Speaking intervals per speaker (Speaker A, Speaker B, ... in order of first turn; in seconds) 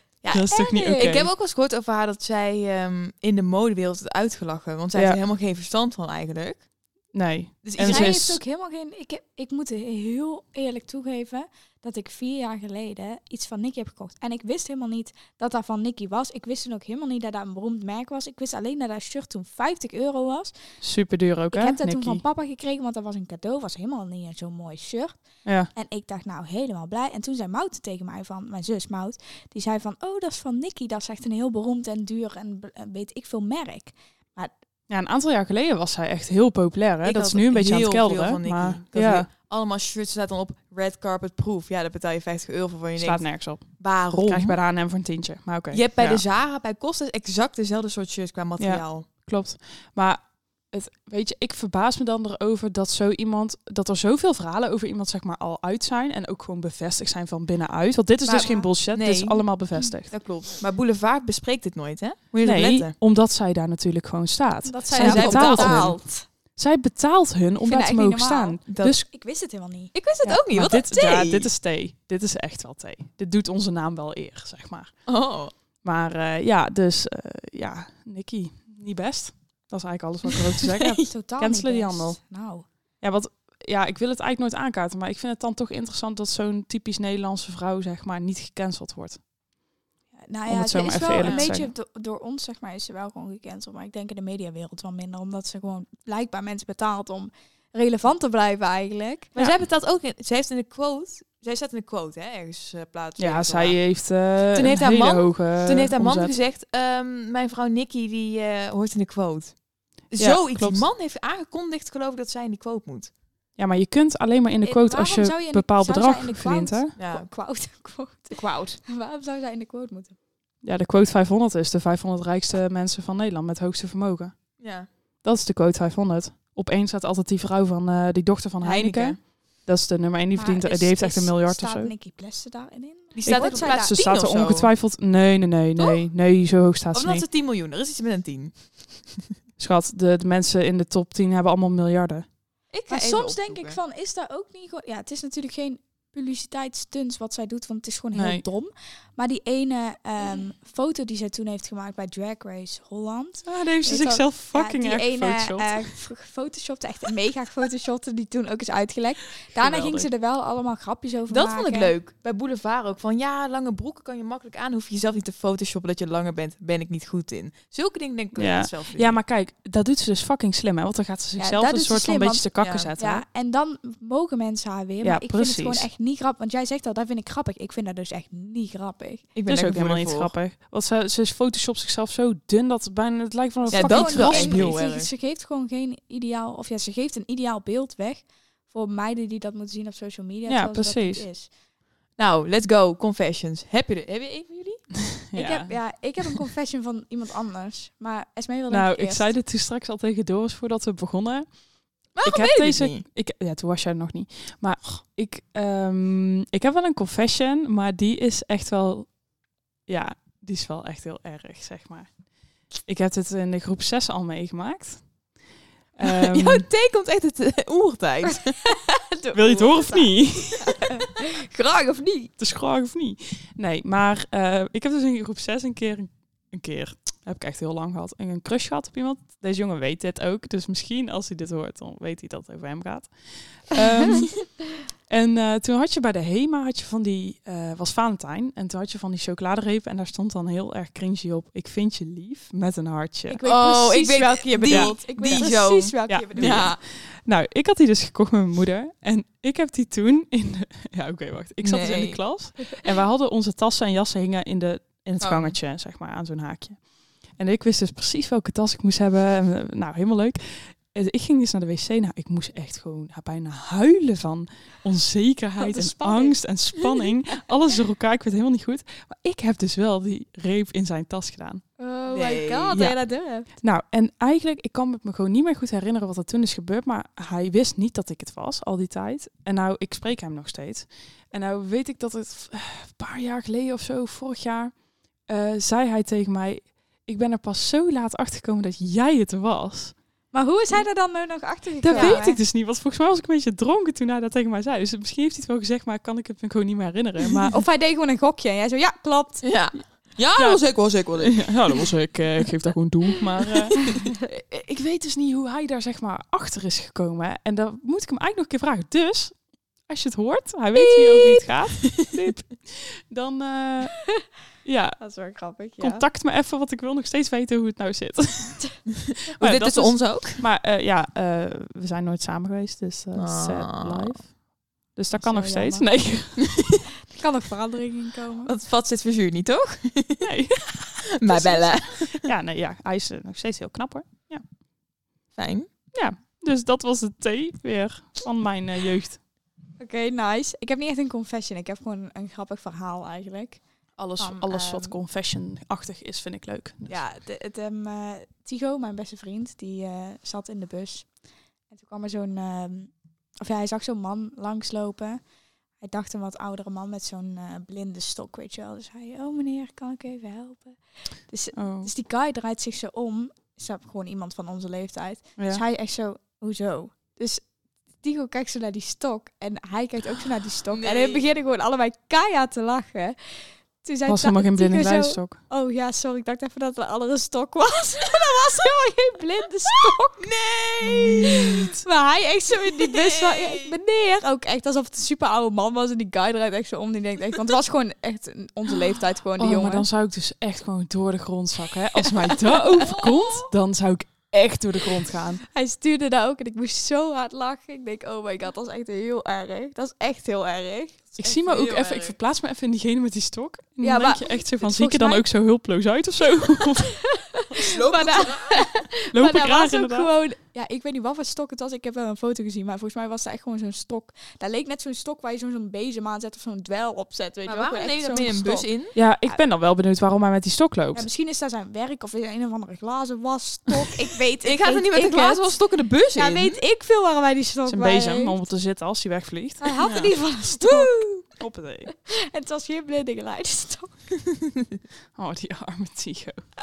Speaker A: 0.2-6.6, 7.6-8.3, 37.0-44.6, 45.7-49.1, 58.2-59.4, 60.1-62.9, 64.9-66.0, 68.7-69.0, 69.9-71.5, 75.1-75.5, 80.7-80.9, 91.2-91.5, 99.3-103.9, 104.5-109.6, 110.1-113.1, 117.0-117.3, 124.6-124.9, 128.6-129.2, 133.2-134.7, 136.9-139.1, 142.7-143.8, 161.3-169.2, 172.6-172.9, 179.3-180.3, 183.7-185.1, 192.2-194.9, 202.2-203.0, 216.0-218.7, 243.4-246.8, 251.6-252.2, 255.2-255.6, 272.1-272.8, 291.9-292.2, 299.4-301.9, 319.2-320.4, 323.1-324.1, 328.4-330.3, 331.1-332.3, 335.4-335.7, 370.7-371.2, 379.9-381.7, 382.7-383.7, 392.9-393.4, 401.1-402.1, 407.5-408.7, 417.4-418.9, 424.4-426.6
Speaker B: 0.3-1.3, 4.9-5.2, 7.1-8.4, 20.8-22.2, 25.4-25.7, 34.9-39.3, 43.0-46.2, 48.6-60.1, 62.4-66.0, 66.5-69.0, 70.2-74.9, 75.8-82.2, 83.0-89.2, 90.5-91.7, 103.2-106.3, 110.2-110.8, 113.5-116.9, 120.6-124.3, 125.2-131.9, 133.8-137.2, 139.6-142.2, 148.1-148.4, 153.4-155.9, 159.5-160.1, 168.3-173.2, 175.0-175.9, 179.4-184.8, 190.5-191.2, 195.1-195.7, 198.7-201.5, 202.2-209.1, 209.9-212.1, 212.8-215.1, 215.9-216.7, 219.3-220.7, 222.4-234.5, 235.1-243.4, 244.6-245.5, 246.1-271.6, 272.7-273.0, 273.6-284.7, 285.3-289.9, 291.8-297.6, 301.2-309.3, 309.9-314.0, 314.6-315.0, 315.8-318.8, 319.4-324.3, 324.9-326.6, 330.2-334.4, 335.9-339.2, 344.0-347.0, 361.5-361.9, 365.4-365.6, 374.1-375.4, 380.9-381.8, 389.4-395.4, 401.2-406.9, 409.1-410.1, 418.9-421.1, 427.6-431.9, 435.1-436.5
Speaker C: 0.5-1.2, 7.8-20.5, 21.5-34.5, 58.3-58.5, 64.6-66.3, 67.6-69.9, 81.1-82.7, 90.2-99.3, 114.6-120.2, 130.3-133.9, 142.9-161.9, 171.4-179.2, 183.7-191.5, 195.3-199.3, 218.3-222.3, 243.3-246.7, 265.6-267.1, 271.8-273.5, 290.3-292.4, 297.5-299.4, 315.0-316.0, 325.1-325.9, 327.1-328.5, 339.8-343.6, 344.2-344.9, 346.9-351.1, 351.7-355.2, 355.8-367.5, 368.0-380.2, 381.8-389.9, 392.0-393.1, 395.5-401.0, 403.8-405.2, 406.8-418.7, 420.9-425.5, 426.1-428.4, 429.6-431.3, 431.9-434.0